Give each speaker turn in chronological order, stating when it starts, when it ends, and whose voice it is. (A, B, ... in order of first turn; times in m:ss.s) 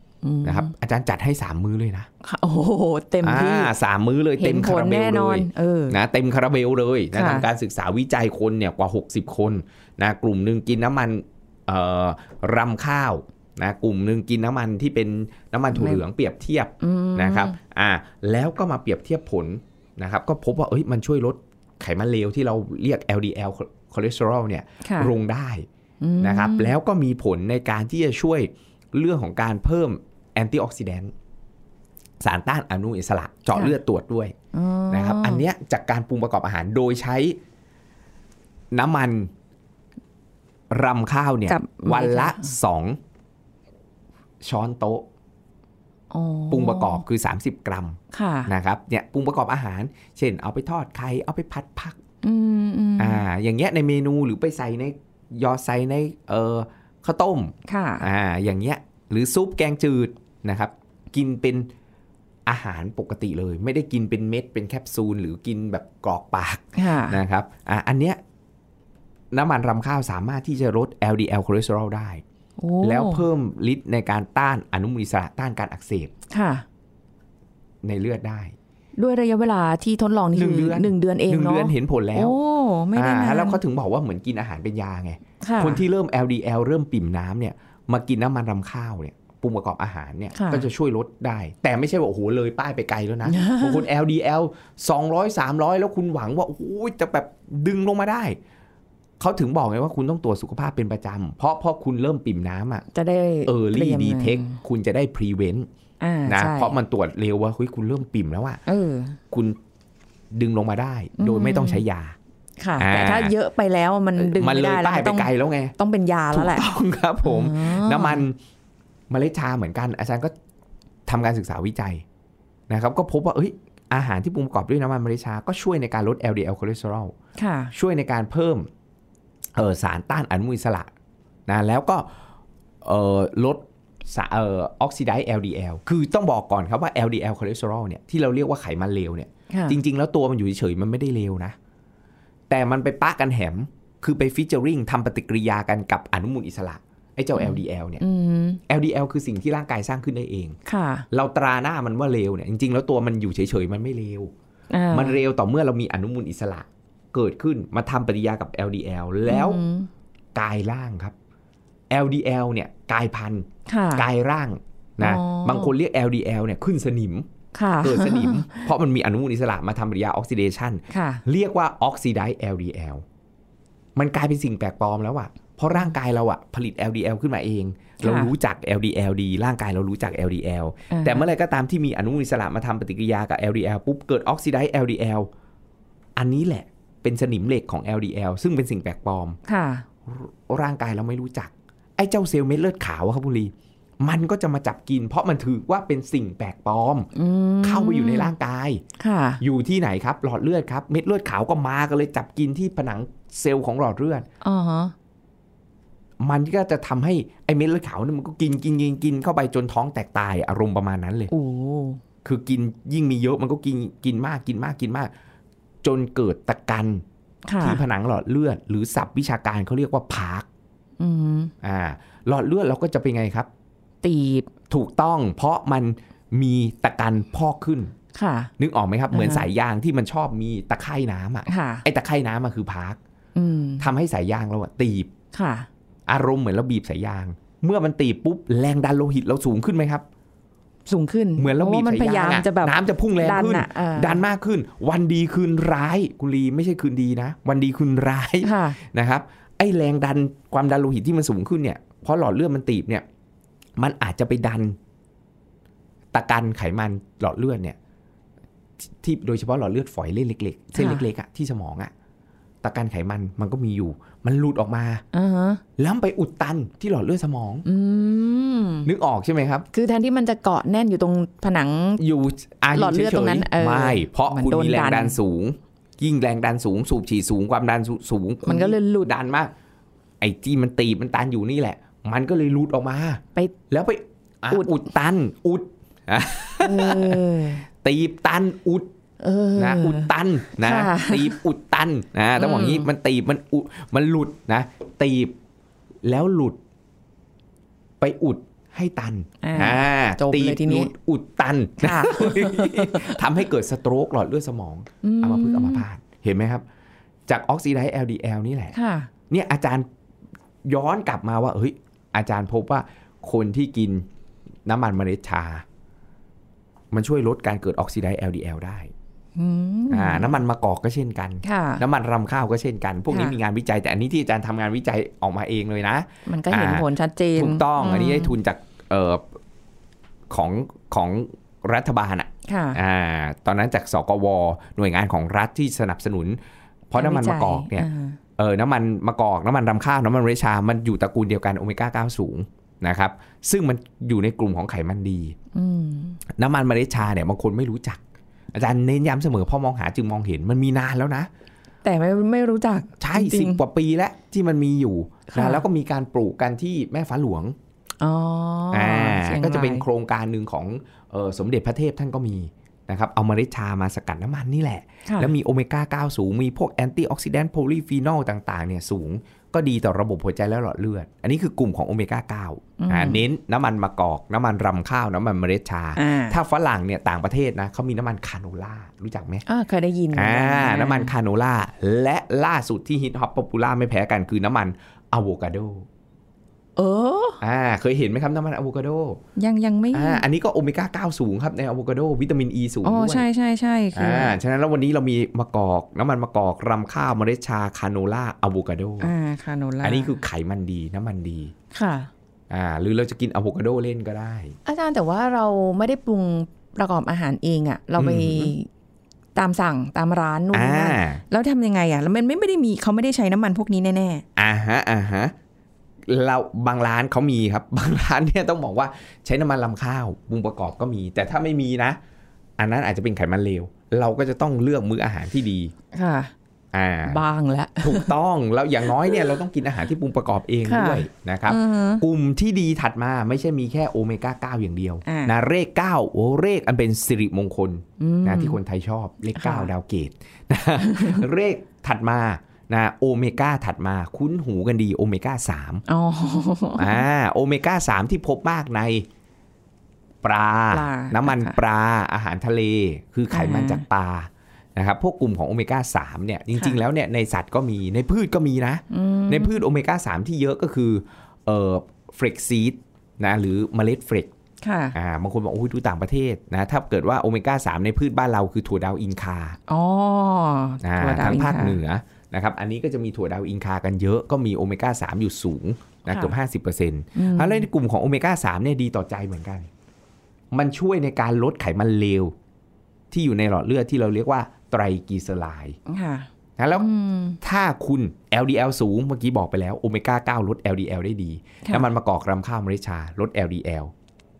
0:00.2-0:00.7 A
0:00.4-0:02.1 B
0:02.2-0:03.7 A
0:03.2-0:25.7 B
0:04.4-0:06.0 A
0:07.1-0:07.4 A
0:15.8-0:16.0 A
0:16.8-0:17.6 A
0:24.8-0:25.1 A
0:26.0-0:26.7 A
0:26.2-0:31.1 B
0:32.2-0:34.3 B
0:34.5-0:35.4 A
0:34.9-0:37.4 B
0:38.7-0:39.3 B
0:40.7-0:43.0 B
0:41.5-0:42.5 A
0:44.4-0:45.0 B
0:46.1-0:47.0 A
0:46.5-0:52.0 B
0:48.1-0:48.5 A
0:52.2-0:53.2 A
0:53.0-1:01.7 B
0:57.7-0:58.0 A
1:02.4-1:08.2 B
1:06.8-1:07.2 A
1:09.3-1:12.2 B
1:12.6-1:13.2 A
1:12.8-1:16.1 B
1:16.3-1:16.6 A
1:17.8-1:18.6 B
1:19.0-1:23.6 A
1:20.3-1:22.4 B
1:22.9-1:38.4 B
1:25.4-1:25.8 A
1:30.3-1:30.7 A
1:33.2-1:33.8 A
1:39.2-1:42.8 B
1:42.9-1:44.6 A
1:43.4-1:45.7 B
1:46.0-1:46.7 A
1:46.3-1:48.6 B
1:48.6-1:49.2 A
1:49.3-1:49.6 B
1:50.3-1:52.2 B
1:51.2-1:51.8 A
1:52.6-1:56.7 A
1:52.8-1:53.3 B
1:54.2-1:55.8 B
1:56.3-1:58.4 B
1:57.2-1:58.2 A
1:59.1-2:00.3 B
2:01.0-2:02.0 B
2:02.7-2:07.1 B
2:07.4-2:07.7 A
2:07.7-2:08.7 B
2:09.6-2:10.9 B
2:11.5-2:12.1 B
2:12.8-2:21.6 B
2:19.5-2:19.8 A
2:22.5-2:28.0 B
2:27.4-2:28.6 A
2:28.7-2:30.6 B
2:30.7-2:31.0 A
2:31.1-2:34.3 B
2:34.7-2:35.2 A
2:34.9-2:39.6 B
2:39.2-2:39.9 A
2:40.3-2:41.1 B
2:41.9-2:47.3 B
2:43.7-2:44.0 A
2:45.0-2:45.7 A
2:47.5-2:48.7 A
2:47.8-2:53.0 B
2:50.9-2:51.2 A
2:54.0-3:05.3 B
2:58.0-2:58.3 A
3:00.9-3:01.3 A
3:06.2-3:09.4 B
3:09.5-3:09.8 A
3:10.0-3:17.1 B
3:17.1-3:18.3 A
3:17.6-3:18.8 B
3:19.0-3:19.4 A
3:19.4-3:24.3 B
3:24.4-3:24.9 A
3:26.2-3:31.3 B
3:31.3-3:32.0 A
3:32.2-3:35.1 B
3:35.8-3:37.0 B
3:37.5-3:37.8 A
3:37.6-3:40.5 B
3:41.0-3:41.5 A
3:41.6-3:43.5 B
3:44.0-3:44.5 A
3:44.7-3:47.9 B
3:48.1-3:48.5 A
3:48.6-3:53.0 B
3:49.1-3:49.5 A
3:51.5-3:51.8 A
3:53.3-3:53.9 A
3:53.8-3:55.1 B
3:55.3-3:55.7 A
3:56.1-4:00.0 B
4:00.9-4:04.2 A
4:01.4-4:13.0 B
4:08.4-4:08.8 A
4:13.8-4:14.8 B
4:16.1-4:17.8 B
4:18.8-4:21.9 B
4:20.7-4:21.0 A
4:22.6-4:25.0 B
4:25.1-4:25.6 A
4:25.8-4:27.6 B
4:27.6-4:28.9 A
4:28.8-4:29.7 B
4:29.7-4:32.0 A
4:32.0-4:39.5 B
4:32.7-4:35.2 A
4:38.4-4:39.1 A
4:40.2-4:47.2 B
4:46.6-4:47.6 A
4:47.8-4:48.9 B
4:49.2-4:51.3 A
4:49.6-4:55.4 B
4:52.4-4:52.9 A
4:56.0-4:56.6 B
4:58.0-5:06.6 B
4:59.4-5:00.9 A
5:01.8-5:03.2 A
5:05.0-5:05.8 A
5:07.3-5:08.7 B
5:08.7-5:09.1 A
5:09.3-5:09.9 B
5:10.6-5:14.1 B
5:14.6-5:15.6 B
5:16.9-5:18.9 B
5:19.4-5:20.3 A
5:19.9-5:29.4 B
5:21.4-5:21.8 A
5:23.1-5:23.3 A
5:26.2-5:28.3 A
5:30.3-5:37.9 B
5:32.5-5:32.8 A
5:37.0-5:38.2 A
5:38.4-5:45.4 B
5:45.5-5:46.2 A
5:46.3-5:48.0 B
5:48.5-5:51.3 B
5:51.8-5:53.6 A
5:53.0-5:57.6 B
5:55.3-5:55.6 A
5:58.0-5:59.8 A
5:58.7-6:19.4 B
6:05.0-6:05.3 A
6:12.8-6:13.2 A
6:16.0-6:16.4 A
6:19.4-6:21.1 A
6:20.1-6:25.9 B
6:26.8-6:27.4 A
6:27.4-6:29.2 B
6:29.4-6:30.2 A
6:29.9-6:33.2 B
6:32.8-6:34.4 A
6:33.9-6:39.1 B
6:39.0-6:40.2 A
6:39.8-6:41.5 B
6:41.7-6:42.1 A
6:42.5-6:44.6 B
6:44.6-6:48.7 A
6:48.0-6:48.5 B
6:49.3-6:54.2 A
6:50.5-6:51.2 B
6:54.4-6:55.3 B
6:56.1-7:02.0 B
7:02.6-7:05.7 B
7:05.9-7:06.3 A
7:06.7-7:07.2 B
7:07.1-7:08.1 A
7:07.8-7:25.8 B
7:10.7-7:12.0 A
7:15.0-7:15.3 A
7:18.0-7:18.6 A
7:19.4-7:19.7 A
7:20.8-7:21.2 A
7:25.9-7:27.0 A
7:26.8-7:29.1 B
7:30.2-7:44.3 B
7:30.7-7:31.6 A
7:33.3-7:33.8 A
7:38.9-7:39.6 A
7:44.6-7:45.0 A
7:44.9-7:49.6 B
7:49.7-7:51.8 A
7:50.8-7:59.7 B
7:56.0-7:56.3 A
7:57.2-7:57.7 A
8:00.5-8:02.3 B
8:03.1-8:05.8 B
8:05.9-8:07.4 A
8:06.6-8:06.9 B
8:07.4-8:13.9 B